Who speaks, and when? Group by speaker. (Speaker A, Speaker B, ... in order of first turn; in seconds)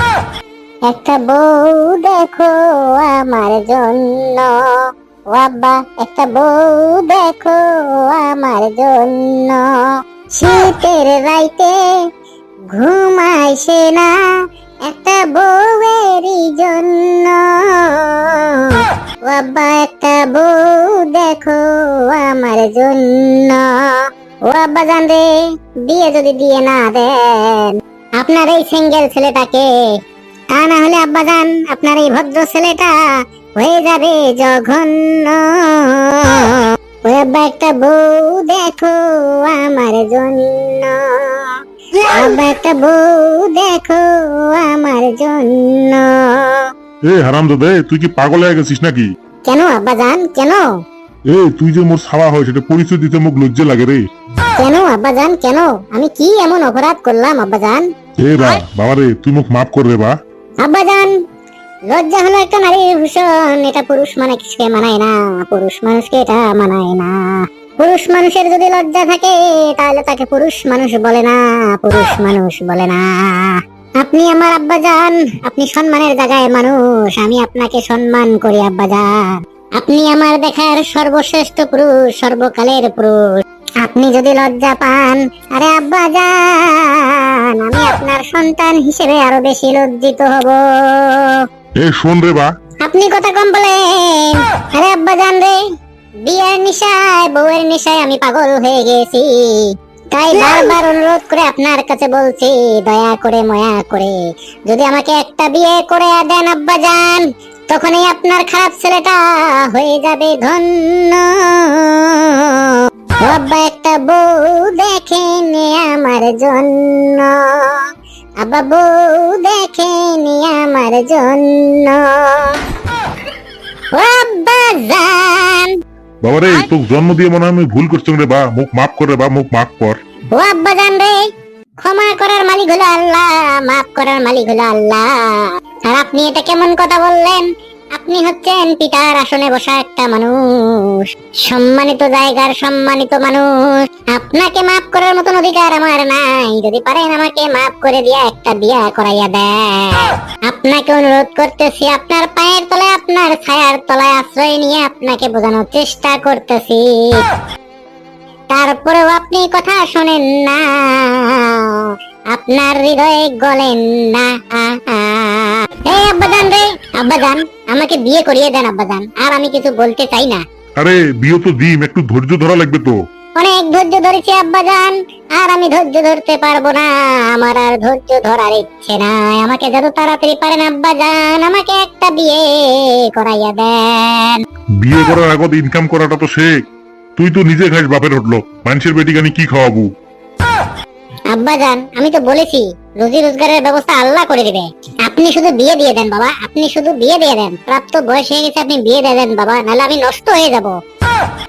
Speaker A: 0.8-12.0, 12.7-14.3, 14.8-25.3, 25.9-29.7, 30.5-32.9, 33.6-46.7, 49.5-50.7, 54.6-57.9, 60.6-61.1, 61.9-91.5, 92.8-95.6, 96.2-117.8, 118.4-122.6, 123.9-125.8, 130.3-131.2, 131.8-157.2, 158.5-170.4, 173.4-184.4, 191.3-200.8
Speaker B: 47.1-49.1, 51.3-54.0, 58.2-60.1, 91.8-92.5, 126.2-130.0, 170.8-173.0, 184.8-186.5, 187.2-189.9